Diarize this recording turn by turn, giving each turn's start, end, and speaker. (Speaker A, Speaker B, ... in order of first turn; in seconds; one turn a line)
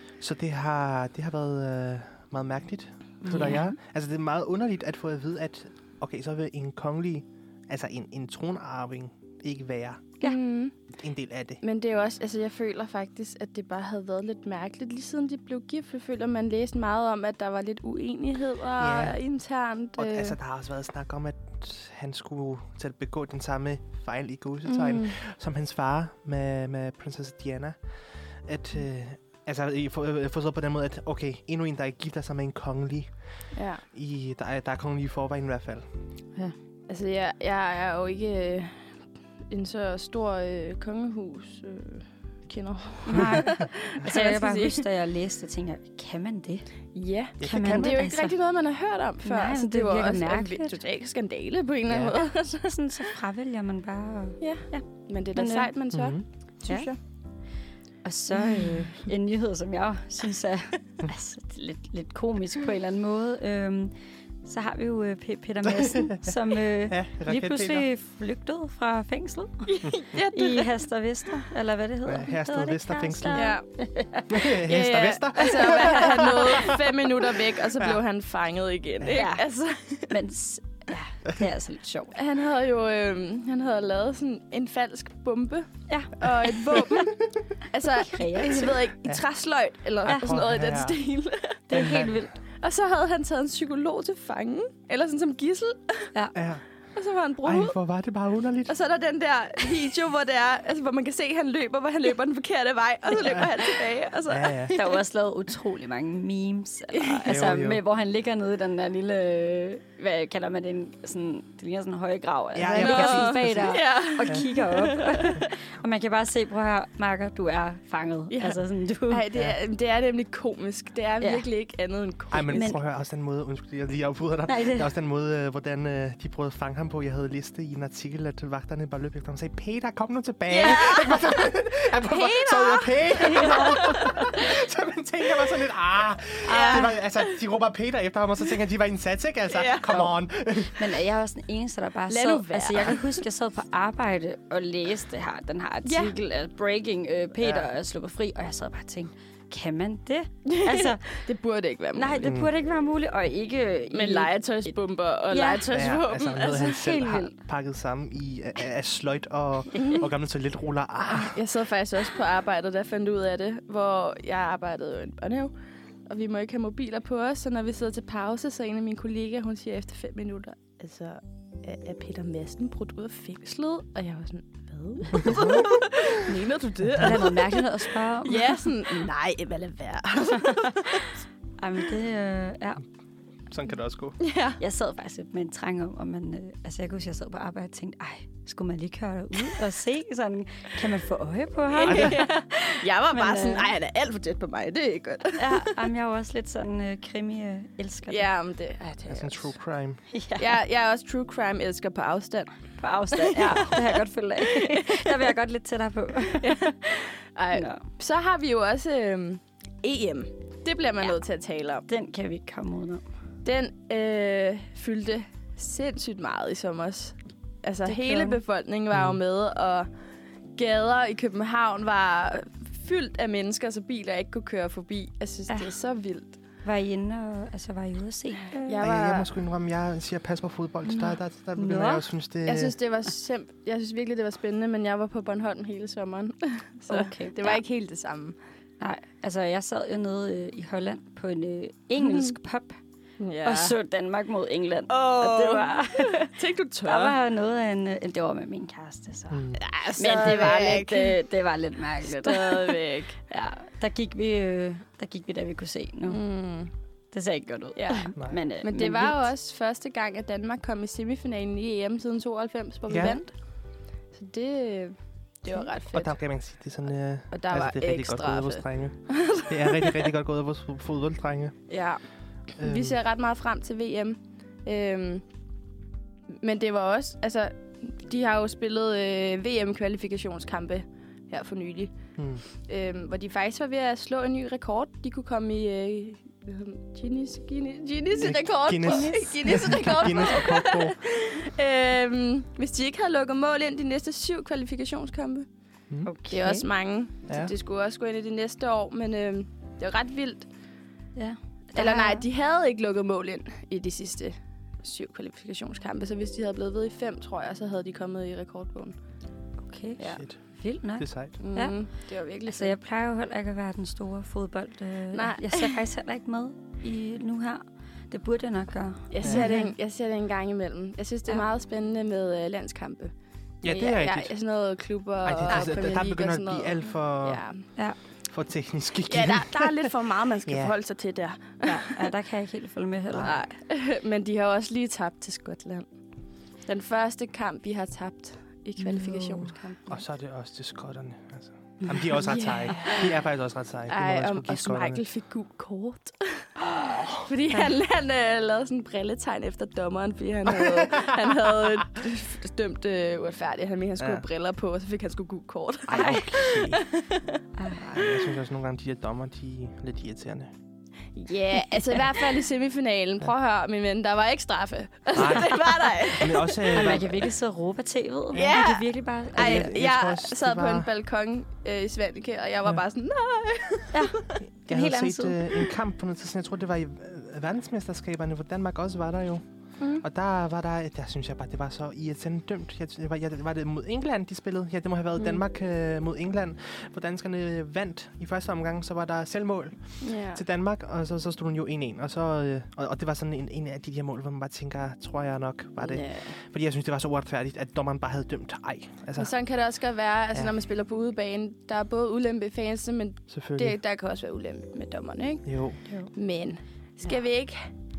Speaker A: 0.2-10.2
Speaker B: 3.3-3.7
Speaker C: 10.2-10.8
Speaker A: 10.9-11.6
Speaker C: 11.6-20.4
Speaker A: 18.8-19.2
Speaker A: 20.0-27.8
Speaker C: 24.7-25.1
Speaker A: 28.4-33.1
Speaker C: 33.5-33.8
Speaker A: 33.9-35.9
Speaker C: 36.9-38.9
Speaker C: 39.5-44.9
Speaker B: 43.1-46.7
Speaker C: 46.9-52.8
Speaker A: 47.4-48.0
Speaker B: 47.4-48.4
Speaker B: 49.2-50.8
Speaker A: 51.9-52.1
Speaker B: 52.6-55.7
Speaker C: 54.4-57.0
Speaker A: 55.9-56.2
Speaker B: 58.0-63.9
Speaker B: 64.4-74.5
Speaker A: 65.6-66.4
Speaker A: 66.9-67.8
Speaker C: 69.7-70.7
Speaker A: 72.0-73.5
Speaker C: 73.3-73.7
Speaker A: 74.3-76.9
Speaker C: 74.4-80.1
Speaker B: 75.7-76.4
Speaker B: 79.1-79.5
Speaker B: 80.1-82.2
Speaker C: 82.2-91.7
Speaker B: 85.9-87.0
Speaker B: 88.0-88.8
Speaker A: 90.0-91.0
Speaker B: 91.7-92.3
Speaker A: 91.7-92.3
Speaker C: 92.6-96.1
Speaker A: 96.3-96.6
Speaker C: 97.0-97.8
Speaker A: 97.5-98.7
Speaker C: 98.7-105.0
Speaker A: 104.3-104.8
Speaker B: 104.8-119.3
Speaker C: 106.9-107.3
Speaker A: 107.3-107.8
Speaker A: 112.5-114.4
Speaker C: 112.8-115.5
Speaker C: 118.3-122.8
Speaker A: 122.3-141.0
Speaker B: 122.5-122.8
Speaker B: 124.5-124.9
Speaker C: 130.5-131.5
Speaker C: 132.0-134.4
Speaker B: 133.2-134.3
Speaker C: 136.5-137.3
Speaker B: 136.6-136.9
Speaker C: 139.5-140.1
Speaker B: 140.8-151.2
Speaker C: 142.1-143.1
Speaker C: 145.8-146.2
Speaker A: 147.4-147.7
Speaker C: 150.5-152.3
Speaker B: 151.9-154.3
Speaker A: 152.2-152.5
Speaker C: 153.9-156.8
Speaker B: 155.3-155.7
Speaker A: 155.7-161.4
Speaker B: 156.5-157.3
Speaker C: 159.8-160.0
Speaker C: 161.1-165.5
Speaker C: 166.1-177.7
Speaker A: 175.2-175.8
Speaker B: 177.0-179.1
Speaker C: 178.2-181.1
Speaker B: 180.4-181.0
Speaker B: 181.6-182.8
Speaker A: 183.5-184.2
Speaker C: 184.2-184.6
Speaker B: 184.6-193.7
Speaker C: 191.7-195.8
Speaker A: 191.9-192.2
Speaker B: 195.4-198.3
Speaker C: 198.1-199.5
Speaker A: 199.1-200.0
Speaker B: 200.1-200.6
Speaker C: 200.4-202.5
Speaker B: 202.8-206.7
Speaker C: 203.1-205.2
Speaker C: 206.4-211.9
Speaker B: 207.5-207.8
Speaker B: 211.9-213.0
Speaker C: 213.4-219.9
Speaker B: 217.9-218.4
Speaker C: 220.6-226.4
Speaker B: 226.6-228.8
Speaker C: 228.7-229.3
Speaker A: 228.8-232.8
Speaker B: 231.6-232.1
Speaker C: 232.4-238.4
Speaker B: 236.9-237.6
Speaker B: 238.8-242.8
Speaker C: 242.1-242.3
Speaker C: 243.2-243.8
Speaker B: 243.4-246.3
Speaker C: 244.9-247.2
Speaker B: 246.8-249.5
Speaker A: 249.3-249.6
Speaker C: 249.6-251.2
Speaker B: 250.0-256.2
Speaker C: 252.0-253.2
Speaker C: 256.1-256.7
Speaker B: 257.1-259.2
Speaker C: 257.8-263.3
Speaker A: 262.9-263.2
Speaker C: 264.1-266.2
Speaker A: 265.9-271.6
Speaker C: 267.3-270.1
Speaker C: 271.7-272.0
Speaker C: 272.6-275.2
Speaker A: 272.6-273.0
Speaker C: 276.3-281.9
Speaker A: 282.2-282.4
Speaker C: 282.5-295.5
Speaker A: 288.2-291.0
Speaker B: 288.8-290.3
Speaker B: 296.1-296.7
Speaker C: 296.3-300.5
Speaker B: 301.2-302.2
Speaker C: 301.8-309.0
Speaker B: 309.7-311.8
Speaker A: 310.0-310.4
Speaker A: 311.0-311.4
Speaker C: 311.4-312.8
Speaker B: 312.5-319.7
Speaker C: 315.1-315.8
Speaker C: 319.1-323.1
Speaker A: 323.6-324.3
Speaker C: 323.6-327.7
Speaker A: 325.2-327.4
Speaker A: 328.3-329.9
Speaker C: 329.1-332.1
Speaker A: 330.4-330.7
Speaker B: 331.7-333.4
Speaker A: 333.1-333.4
Speaker C: 333.2-335.9
Speaker C: 336.7-340.0
Speaker B: 338.8-339.6
Speaker A: 339.9-345.0
Speaker C: 342.3-343.1
Speaker B: 342.3-342.8
Speaker C: 343.9-357.4
Speaker A: 350.7-351.2
Speaker A: 354.0-354.2
Speaker A: 355.9-356.8
Speaker B: 355.9-356.3
Speaker B: 357.6-357.9
Speaker A: 357.8-360.5
Speaker C: 361.1-367.0
Speaker A: 365.1-367.3
Speaker B: 366.7-369.7
Speaker C: 368.3-374.4
Speaker A: 369.3-370.9
Speaker B: 373.9-375.6
Speaker A: 374.7-379.4
Speaker C: 379.8-380.0
Speaker A: 380.0-399.3
Speaker C: 390.0-390.4
Speaker C: 395.8-396.4
Speaker C: 399.2-407.7
Speaker A: 403.3-403.8
Speaker A: 405.5-405.8